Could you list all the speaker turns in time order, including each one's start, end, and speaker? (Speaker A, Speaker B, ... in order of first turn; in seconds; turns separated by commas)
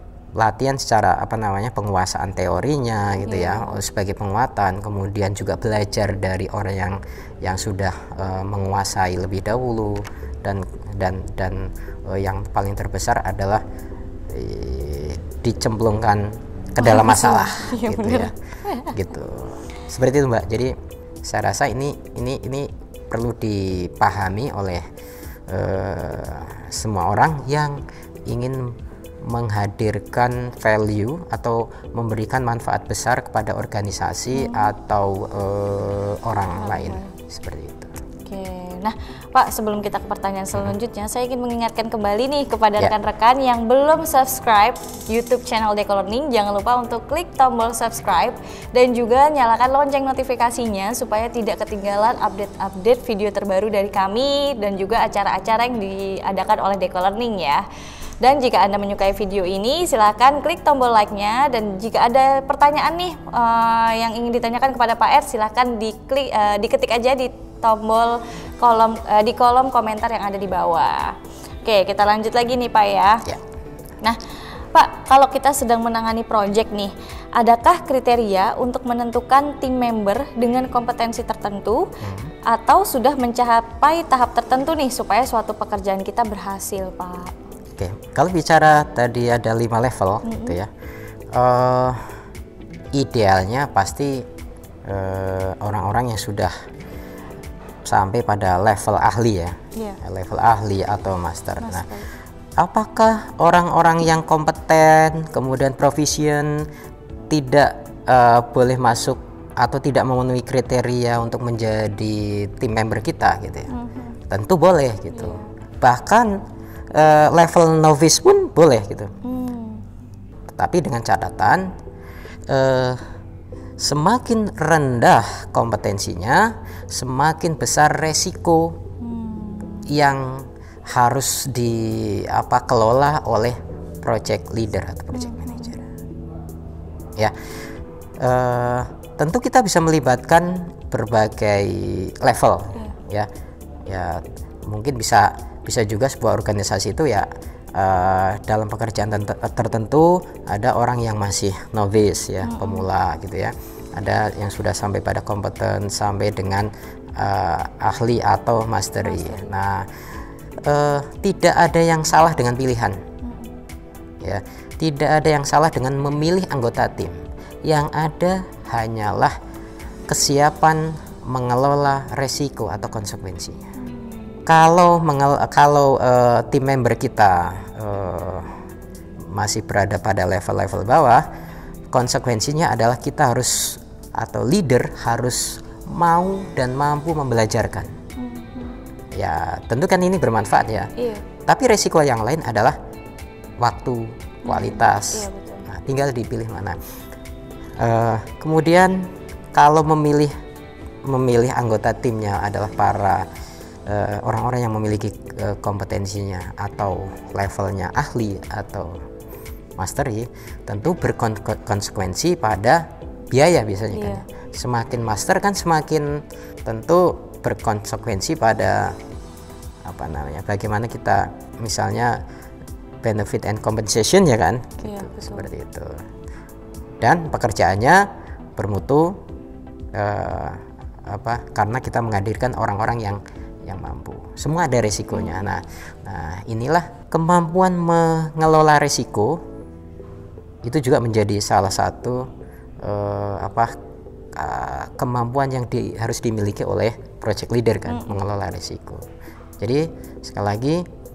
Speaker A: 0.4-13.6, Speaker B: 3.2-3.8, Speaker A: 14.3-18.3, Speaker B: 16.8-18.9, Speaker A: 18.9-24.9, Speaker A: 25.5-37.9, Speaker B: 34.3-34.7, Speaker B: 36.6-37.1, Speaker B: 38.3-57.6, Speaker B: 58.2-73.3, Speaker B: 74.7-81.9, Speaker A: 82.0-82.3, Speaker B: 82.5-87.4, Speaker A: 87.8-90.7, Speaker B: 90.2-90.6, Speaker A: 91.3-92.1, Speaker A: 92.9-94.3, Speaker A: 94.8-96.5, Speaker A: 97.8-101.9, Speaker B: 99.8-100.0, Speaker B: 101.6-102.1, Speaker A: 102.6-106.7, Speaker A: 107.3-113.7, Speaker B: 113.7-114.2, Speaker A: 114.3-116.4, Speaker B: 115.1-115.5, Speaker A: 116.9-119.1, Speaker B: 119.2-119.8, Speaker A: 120.5-121.7, Speaker A: 122.5-123.0, Speaker A: 123.8-128.8, Speaker B: 129.0-129.9, Speaker A: 129.9-135.8, Speaker B: 135.1-135.8, Speaker A: 138.2-143.3, Speaker A: 143.9-160.0, Speaker B: 152.4-152.9, Speaker B: 159.0-159.5, Speaker A: 160.6-163.0, Speaker B: 163.2-163.5, Speaker A: 164.2-169.4, Speaker A: 170.1-173.7, Speaker B: 173.8-174.4, Speaker A: 174.5-178.6, Speaker A: 179.2-181.3, Speaker A: 181.9-187.9, Speaker B: 188.2-188.8, Speaker A: 189.2-190.9, Speaker B: 191.0-191.2, Speaker A: 191.4-192.8, Speaker A: 193.6-196.8, Speaker B: 194.4-195.7, Speaker A: 197.8-200.3, Speaker A: 201.1-203.3, Speaker A: 203.9-209.0, Speaker A: 209.8-219.0, Speaker B: 213.9-214.2, Speaker A: 219.8-222.2, Speaker A: 223.0-226.0, Speaker B: 224.8-225.5, Speaker A: 227.0-229.2, Speaker A: 229.9-239.4, Speaker B: 235.1-235.4, Speaker A: 240.6-242.3, Speaker A: 242.8-243.7, Speaker A: 244.3-249.1, Speaker B: 247.9-248.2, Speaker A: 249.6-250.8